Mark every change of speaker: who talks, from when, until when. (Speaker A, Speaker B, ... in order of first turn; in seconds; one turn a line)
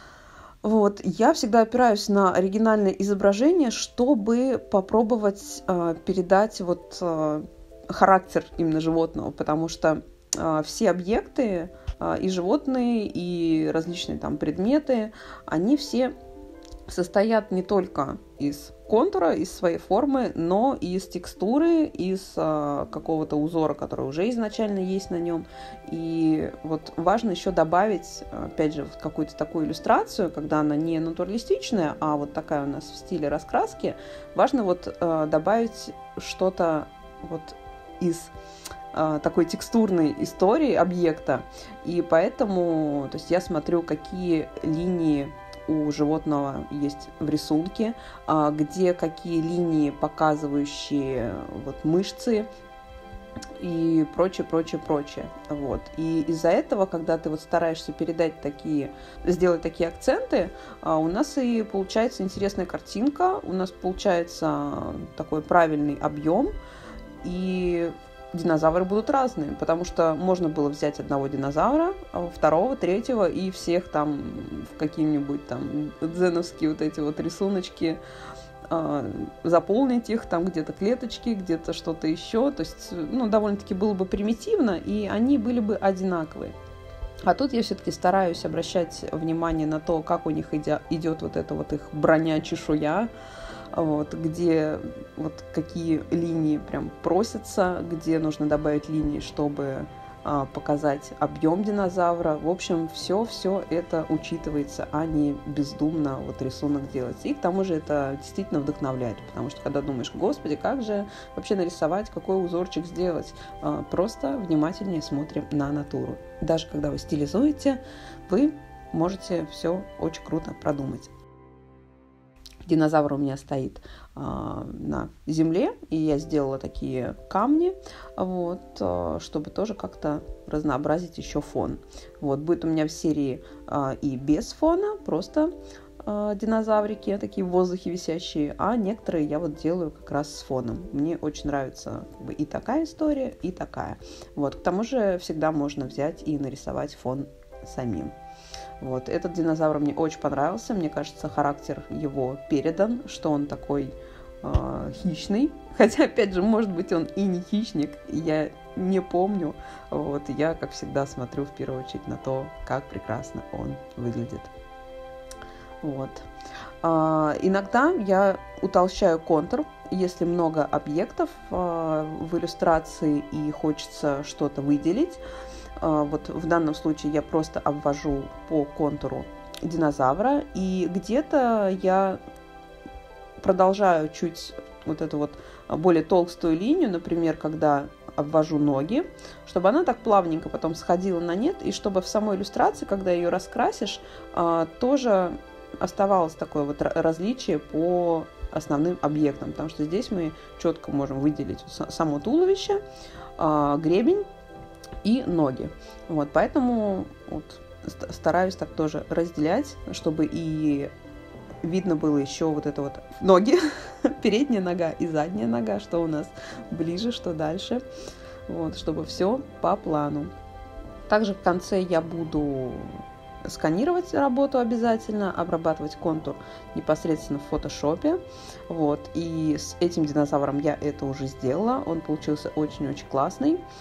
Speaker A: 0.6-16.1
Speaker A: 16.9-38.3
Speaker A: 38.9-52.5
Speaker A: 53.6-66.5
Speaker A: 67.2-78.0
Speaker A: 78.7-86.6
Speaker A: 87.3-93.1
Speaker A: 93.7-121.1
Speaker A: 122.7-135.5
Speaker A: 136.0-148.1
Speaker A: 148.8-164.5
Speaker A: 165.8-166.3
Speaker A: 166.8-175.2
Speaker A: 175.8-182.2
Speaker A: 183.4-202.8
Speaker A: 203.4-204.2
Speaker A: 205.0-210.9
Speaker A: 211.6-217.8
Speaker A: 218.5-220.3
Speaker A: 221.1-233.6